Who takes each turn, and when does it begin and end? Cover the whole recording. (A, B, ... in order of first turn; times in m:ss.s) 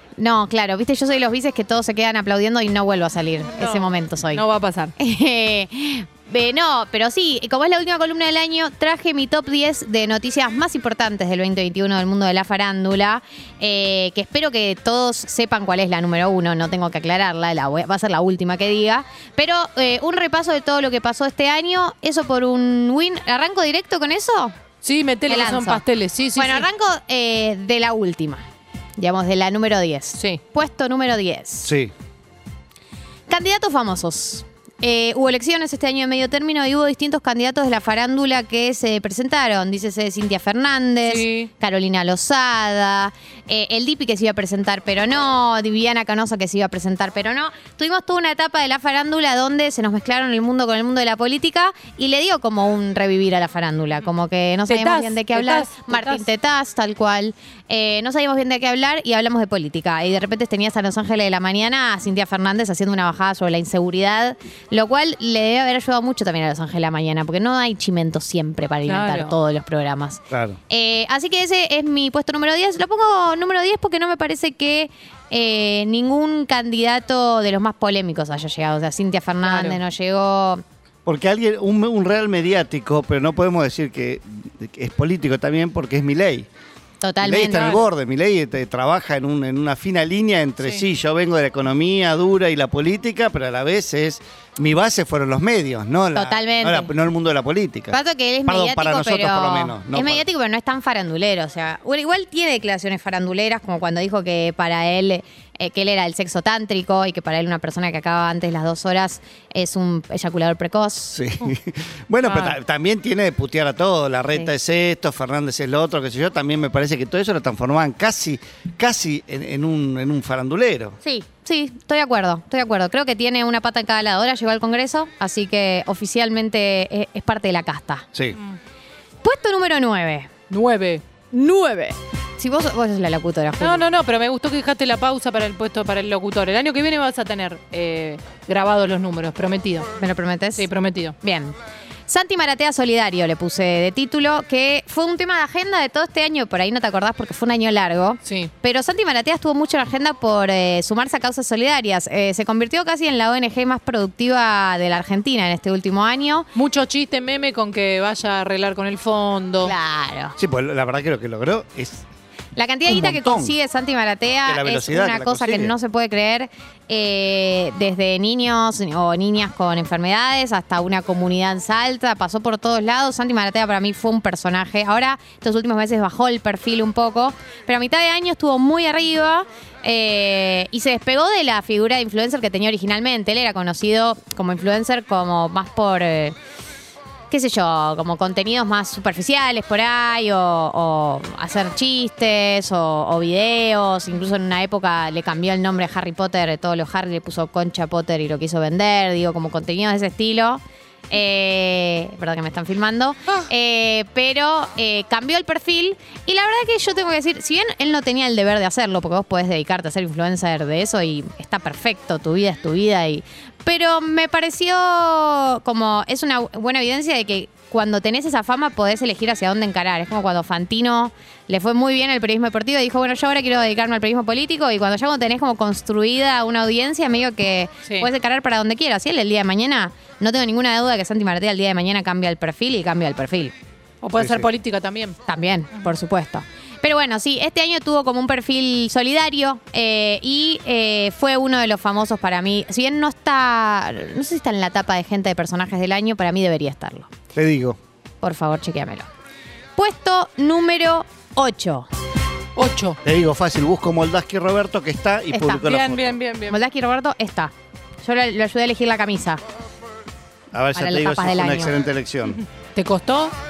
0:00.2-0:04.4 A
0:03.6-0:04.9 B
0:05.0-0:24.6 A
0:24.8-0:26.7 B
0:25.3-0:25.8 A
0:26.4-0:28.4 A
0:29.0-0:31.7 A
0:31.6-0:31.9 C
0:33.3-1:20.6 A
0:41.1-0:41.5 B
0:54.7-0:56.3 B
1:08.9-1:09.4 B
1:10.3-1:10.6 C
1:19.4-1:19.8 B
1:21.0-1:26.5 C
1:27.0-1:27.8 A
1:27.2-1:40.2 C
1:27.6-1:27.8 B
1:36.1-1:36.9 A
1:37.9-1:51.2 A
1:51.1-2:01.0 C
1:52.2-1:52.6 B
2:01.0-2:08.1 A
2:08.1-2:08.4 C
2:09.2-2:10.3 A
2:10.5-2:11.0 B
2:11.3-2:13.8 A
2:13.6-2:19.9 B
2:20.0-2:20.7 A
2:20.6-2:21.2 B
2:21.2-2:21.6 A
2:22.1-2:36.5 A
2:28.3-2:28.5 B
2:36.6-2:39.8 B
2:39.6-2:40.4 A
2:40.4-2:42.0 C
2:42.6-3:06.4 A
2:42.9-2:43.6 C
2:44.5-2:45.7 C
3:07.3-3:53.6 A
3:54.0-3:55.2 B
3:54.2-3:54.5 C
3:55.3-4:07.1 A
4:07.3-4:07.8 C
4:08.2-4:09.1 A
4:09.8-4:11.9 A
4:12.6-4:13.0 B
4:13.0-4:16.2 C
4:15.3-4:15.6 A
4:15.6-4:16.6 B
4:16.5-4:19.4 A
4:20.5-4:22.4 C
4:20.7-4:21.8 A
4:22.2-4:23.3 B